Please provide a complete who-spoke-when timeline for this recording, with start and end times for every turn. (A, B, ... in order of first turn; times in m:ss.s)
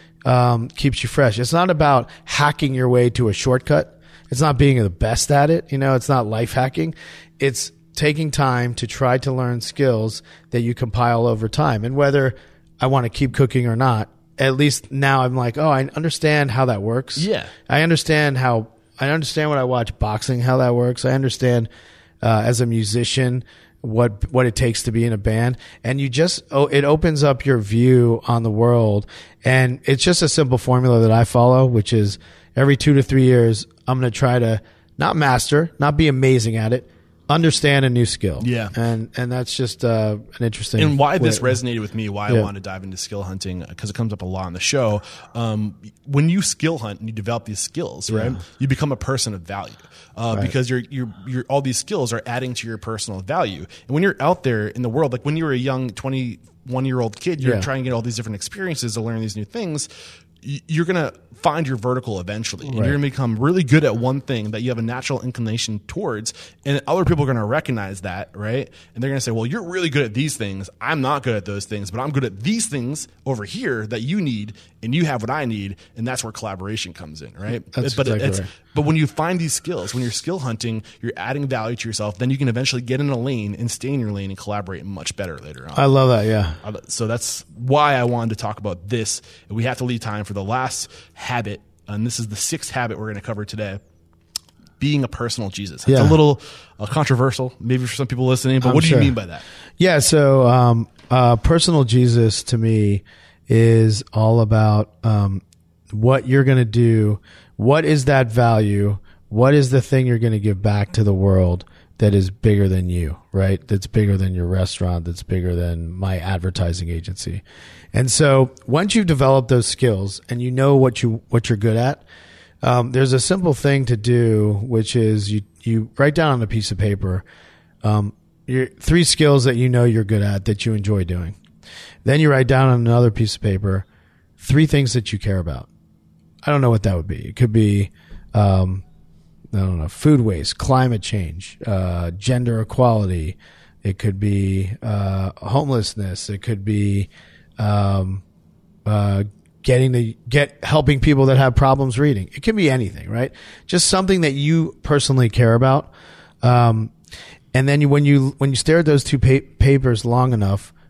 0:00.3-0:21.7 A
0:17.2-0:17.5 B
0:22.2-0:41.6 A
0:38.4-0:38.7 B
0:40.8-0:59.9 B
0:48.1-0:48.4 A
0:57.4-0:57.7 A
1:00.4-1:25.9 B
1:02.6-1:03.0 A
1:17.7-1:18.5 A
1:25.8-1:26.6 A
1:26.6-1:33.8 B
1:34.8-1:39.4 B
1:35.9-1:36.2 A
1:38.6-1:39.2 A
1:39.8-2:02.0 A
2:02.6-2:07.2 A
2:07.8-2:11.4 A
2:12.0-2:13.9 A
2:14.4-2:15.7 A
2:16.4-2:18.8 A
2:19.5-2:28.2 A
2:28.8-2:36.9 A
2:37.5-2:40.7 A